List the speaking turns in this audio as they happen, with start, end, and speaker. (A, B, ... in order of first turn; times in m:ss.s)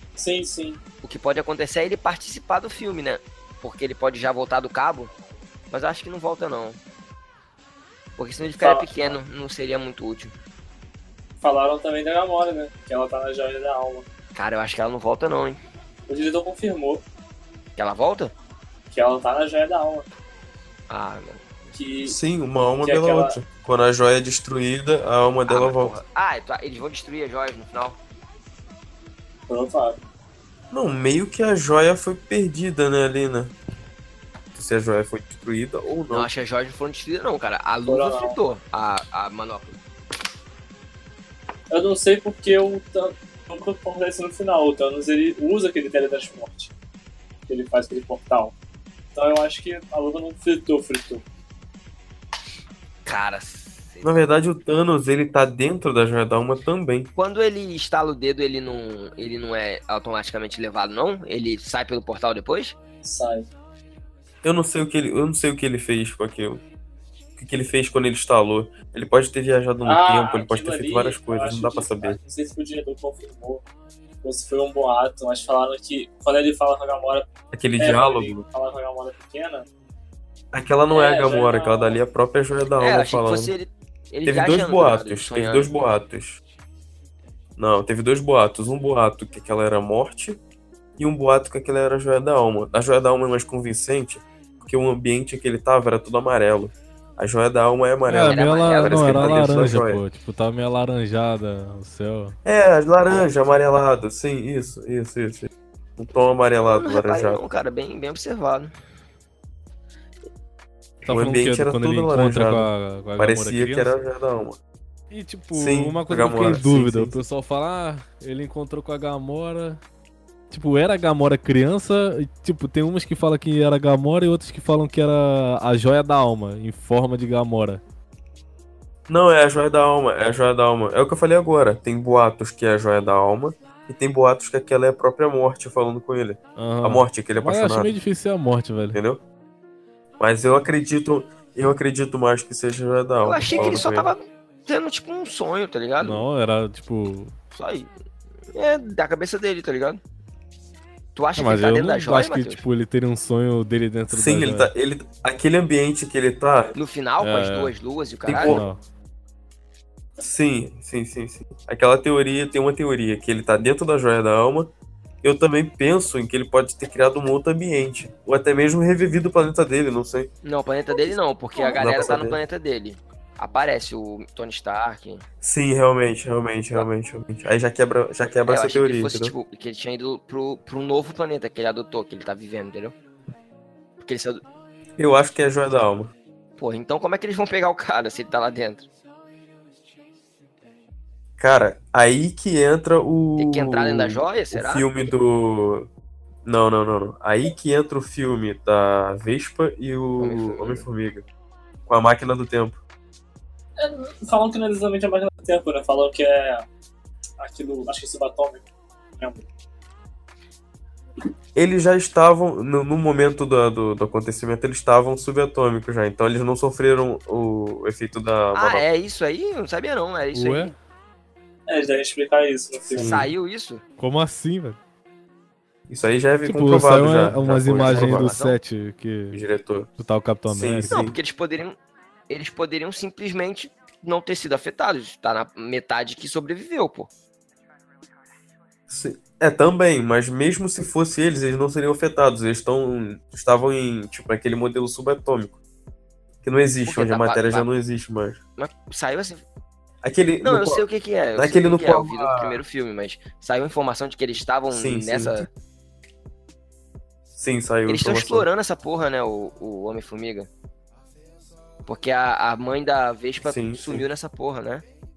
0:00.2-0:00.8 A
0:01.0-0:05.1 B
0:05.7-0:06.8 B
0:08.2-0:10.3 B
0:08.6-0:08.9 A
0:11.4-0:14.1 A
0:14.4-0:15.6 B
0:16.1-0:17.0 A
0:17.8-0:18.3 B
0:18.9-0:20.1 A
0:20.9-0:21.8 B
0:21.8-0:22.2 A
0:22.0-0:26.0 C
0:22.8-0:23.4 A
0:25.5-0:28.0 B
0:29.5-0:30.0 A
0:30.7-0:33.6 C
0:34.5-0:36.3 C
0:36.1-0:39.8 B
0:37.9-0:38.4 A
0:41.7-0:46.7 A
0:47.5-0:48.6 A
0:49.2-0:51.2 A
0:53.0-0:54.3 B
0:54.0-0:57.1 C
0:57.2-1:02.8 B
1:03.0-1:03.5 A
1:04.4-1:06.6 C
1:07.4-1:12.2 C
1:09.8-1:13.6 A
1:14.2-1:19.7 A
1:17.5-1:18.4 C
1:20.5-1:23.5 C
1:20.9-1:22.0 A
1:22.8-1:25.7 B
1:24.3-1:26.4 C
1:27.6-1:30.4 C
1:31.0-1:40.0 C
1:38.1-1:42.4 D
1:38.2-1:39.6 B
1:42.4-1:47.4 C
1:46.6-1:48.7 B
1:51.0-1:54.0 D
1:51.1-1:54.6 C
1:55.1-1:59.8 D
1:55.5-1:57.2 C
2:00.5-2:07.8 D
2:09.1-2:17.9 C
2:16.6-2:19.0 D
2:18.9-2:19.2 C
2:20.2-2:23.9 C
2:23.2-2:26.2 B
2:23.5-2:24.1 D
2:26.0-2:27.4 D
2:27.5-2:27.9 B
2:28.5-2:30.0 B
2:31.2-2:32.6 B
2:31.4-2:34.7 D
2:34.1-2:36.8 C
2:36.7-2:38.6 B
2:37.2-2:37.7 D
2:38.2-2:38.6 C
2:38.3-2:38.8 D
2:40.2-2:44.7 C
2:45.2-2:50.3 C
2:50.4-2:55.2 B
2:51.8-2:52.4 C
2:55.4-2:59.3 C
2:58.5-3:03.0 B
3:04.0-3:04.4 B
3:05.0-3:06.1 C
3:06.6-3:08.9 B
3:11.4-3:15.9 C
3:13.4-3:14.9 B
3:16.4-3:21.3 C
3:20.2-3:20.9 B
3:21.9-3:22.8 C
3:23.8-3:26.7 A
3:27.4-3:28.7 A
3:29.2-3:29.4 A
3:31.6-3:38.8 C
3:38.5-3:40.7 B
3:40.3-3:40.7 D
3:41.7-3:43.2 A
3:42.9-3:43.3 C
3:43.0-3:43.8 B
3:44.0-3:44.8 D
3:45.9-3:48.3 C
3:46.4-3:49.4 D
3:47.8-3:48.6 B
3:49.3-3:49.9 C
3:50.0-3:51.0 D
3:50.5-3:51.2 C
3:50.9-3:51.8 B
3:52.3-3:57.1 B
3:58.9-4:05.6 C
4:06.4-4:08.4 C
4:06.9-4:07.7 B
4:08.6-4:09.4 B
4:10.0-4:10.9 C
4:10.4-4:15.5 B
4:11.4-4:12.6 C
4:14.7-4:15.5 C
4:17.4-4:18.5 C
4:17.9-4:20.5 B
4:21.9-4:24.8 B
4:23.4-4:24.1 C